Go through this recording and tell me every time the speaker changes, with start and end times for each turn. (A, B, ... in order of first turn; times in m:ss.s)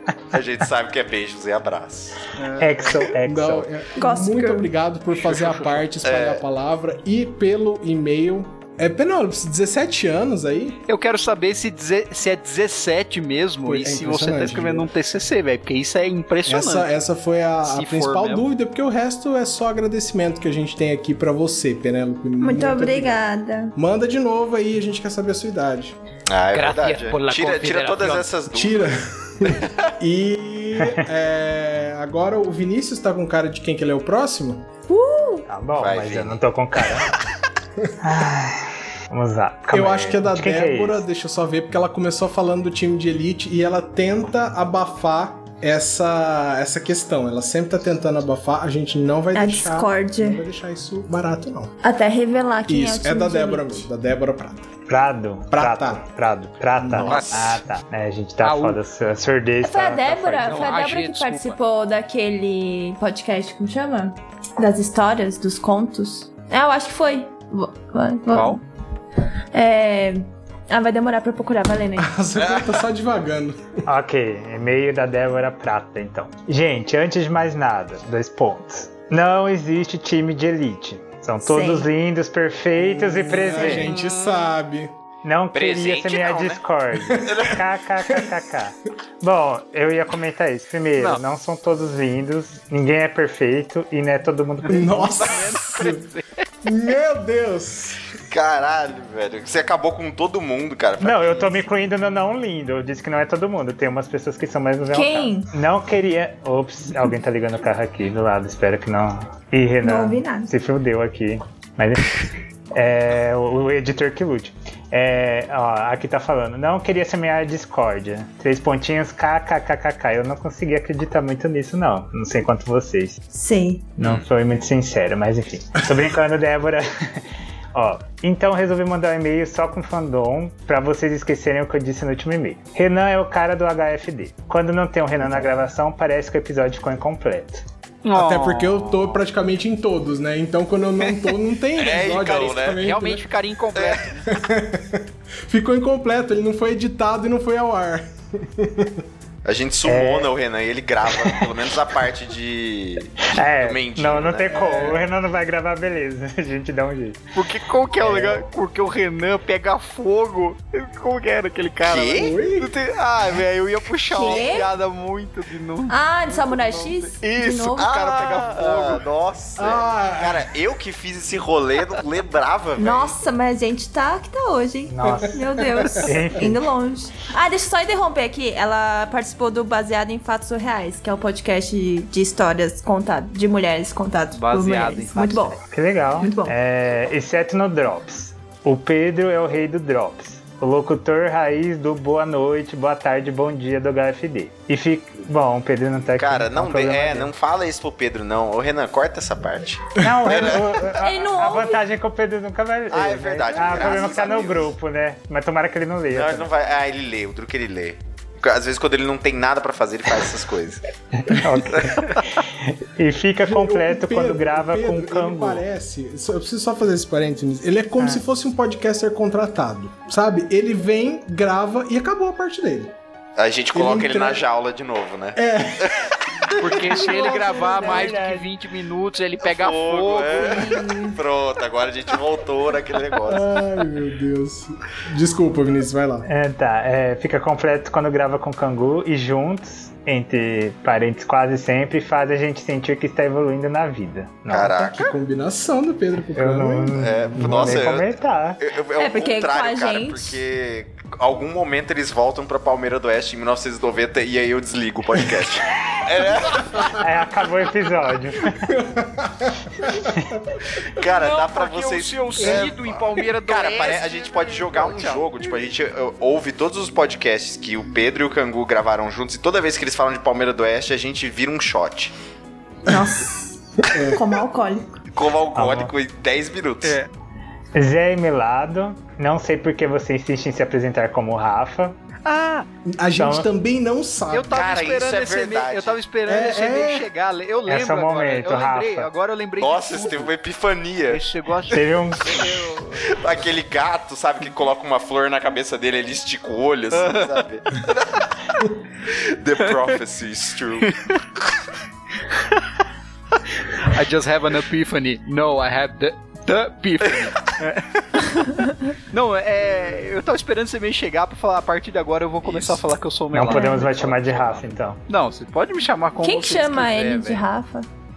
0:00.3-0:02.2 A
0:02.4-0:03.0 B
0:02.6-0:03.7 C
0:03.1-0:10.8 D
0:04.0-0:04.7 E
0:05.1-0:05.9 B
0:06.0-0:06.4 A
0:10.9-0:16.9 B
0:13.6-0:14.9 D
0:16.4-0:23.2 D
0:17.6-0:18.4 B
0:22.4-0:23.7 E
0:23.7-0:26.0 D
0:26.3-0:28.9 A
0:26.5-0:28.3 B
0:28.5-0:34.7 D
0:29.4-0:29.9 A
0:30.8-0:31.0 C
0:34.9-0:35.5 E
0:35.5-0:37.2 C
0:35.8-0:36.4 A
0:38.0-0:41.0 C
0:39.7-0:51.7 D
0:49.3-0:50.4 E
0:51.8-0:53.9 E
0:52.7-0:54.7 D
0:54.9-1:00.7 C
0:55.5-0:56.1 D
0:56.8-0:57.2 D
0:56.9-0:57.6 A
0:57.0-0:57.5 B
0:58.4-0:58.8 B
0:59.6-1:08.6 E
1:00.4-1:01.6 B
1:08.3-1:08.6 B
1:09.5-1:12.2 E
1:12.0-1:13.8 D
1:12.4-1:12.8 A
1:13.9-1:23.9 C
1:21.4-1:21.9 E
1:22.8-1:24.9 D
1:23.5-1:24.4 B
1:25.2-1:35.4 C
1:25.5-1:26.6 A
1:27.1-1:27.4 D
1:27.2-1:27.6 A
1:34.6-1:36.0 D
1:35.0-1:36.4 B
1:36.6-1:38.1 D
1:38.2-1:41.6 A
1:41.0-1:52.2 C
1:44.9-1:45.5 E
1:49.8-1:50.5 E
1:52.7-2:03.2 C
2:03.3-2:03.9 E
2:04.0-2:17.6 C
2:04.0-2:04.2 A
2:15.2-2:15.6 D
2:18.0-2:19.2 B
2:18.1-2:23.2 D
2:21.0-2:21.3 B
2:21.8-2:22.8 A
2:22.8-2:24.3 B
2:23.7-2:24.0 A
2:24.3-2:29.0 D
2:29.4-2:34.6 A
2:29.8-2:30.3 C
2:33.2-2:37.3 C
2:34.5-2:35.0 D
2:37.3-2:49.0 B
2:41.8-2:42.4 A
2:42.1-2:42.7 D
2:44.1-2:44.7 E
2:45.9-2:47.9 E
2:47.8-2:53.2 A
2:49.6-2:50.5 D
2:52.8-3:05.6 E
2:54.9-2:56.6 C
2:55.1-2:56.1 D
3:04.3-3:05.6 B
3:05.7-3:17.3 C
3:06.2-3:06.6 E
3:16.2-3:20.9 A
3:20.0-3:26.5 C
3:20.0-3:20.3 D
3:20.9-3:21.8 E
3:22.9-3:24.7 A
3:26.1-3:30.8 A
3:31.2-3:35.6 C
3:31.7-3:32.0 A
3:33.4-3:42.9 D
3:43.4-3:46.5 A
3:43.7-3:44.4 D
3:45.3-3:46.9 D
3:46.6-3:50.6 B
3:47.0-3:48.5 C
3:49.4-3:53.5 A
3:50.4-3:51.2 E
3:50.5-3:51.0 D
3:53.2-3:56.3 D
3:56.2-4:04.9 C
4:04.5-4:05.1 A
4:04.9-4:07.9 D
4:06.4-4:08.6 C
4:06.9-4:17.0 A
4:09.0-4:10.4 E
4:16.9-4:18.7 C
4:18.6-4:20.4 D
4:20.0-4:20.3 C
4:20.8-4:32.1 A
4:21.0-4:25.3 B
4:22.4-4:22.7 D
4:32.8-4:33.4 E
4:33.9-4:34.3 D
4:34.0-4:34.8 E
4:35.1-4:37.0 A
4:35.5-4:35.9 C
4:36.8-4:37.1 B
4:37.7-4:42.0 C
4:42.2-4:42.7 B
4:42.9-4:44.6 D
4:43.2-4:43.5 C
4:44.3-4:50.3 B
4:44.5-4:46.0 A
4:46.3-4:47.1 D
4:47.7-4:49.1 C
4:49.6-4:51.2 A
4:51.1-4:53.2 B
4:51.7-4:52.4 C
4:52.3-5:00.9 A
4:56.9-4:57.4 B
4:59.6-5:00.0 B
5:00.8-5:01.2 B
5:03.8-5:08.4 B
5:08.4-5:08.7 E
5:09.1-5:17.4 B
5:12.4-5:12.8 A
5:13.3-5:15.0 C
5:13.5-5:13.9 E
5:16.2-5:17.9 E